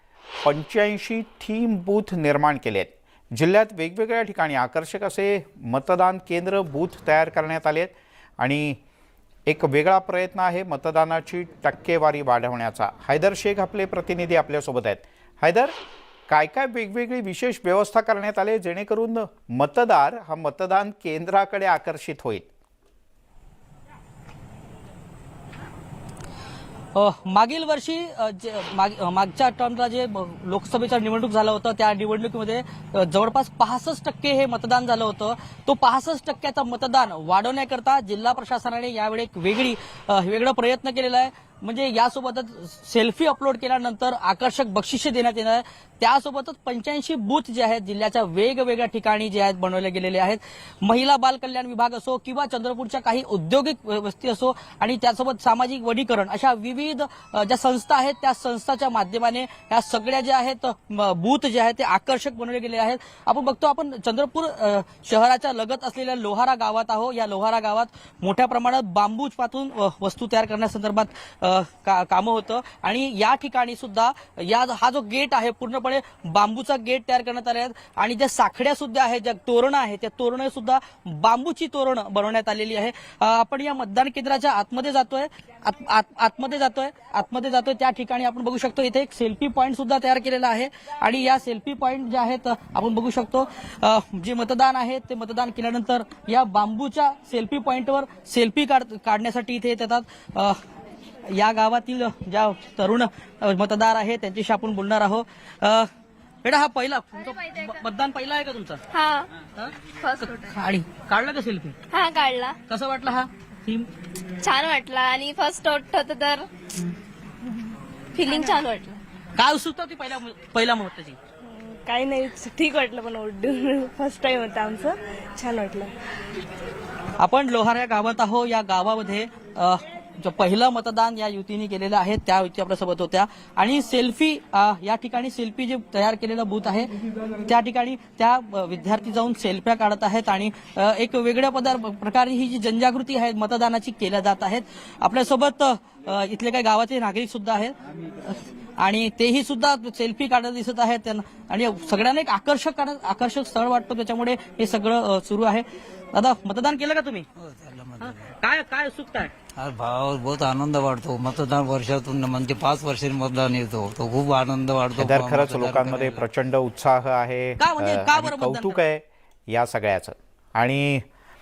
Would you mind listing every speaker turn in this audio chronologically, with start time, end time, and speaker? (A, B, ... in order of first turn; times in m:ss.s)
0:00.4-0:08.8 A
0:09.5-0:15.7 A
0:16.3-0:22.4 A
0:26.9-1:40.6 B
1:41.2-1:45.9 B
1:46.4-1:48.8 B
1:48.9-1:49.3 C
1:49.5-1:51.8 B
1:50.0-1:50.5 C
1:51.9-1:52.6 C
1:52.7-1:53.9 B
1:54.4-1:56.5 C
1:58.1-1:59.0 C
1:59.4-2:01.2 B
2:01.4-2:05.9 D
2:07.2-2:16.9 B
2:17.4-2:37.2 B
2:37.4-2:38.3 E
2:38.0-2:39.3 B
2:39.6-2:46.2 E
2:45.0-2:51.0 A
2:47.6-2:48.8 B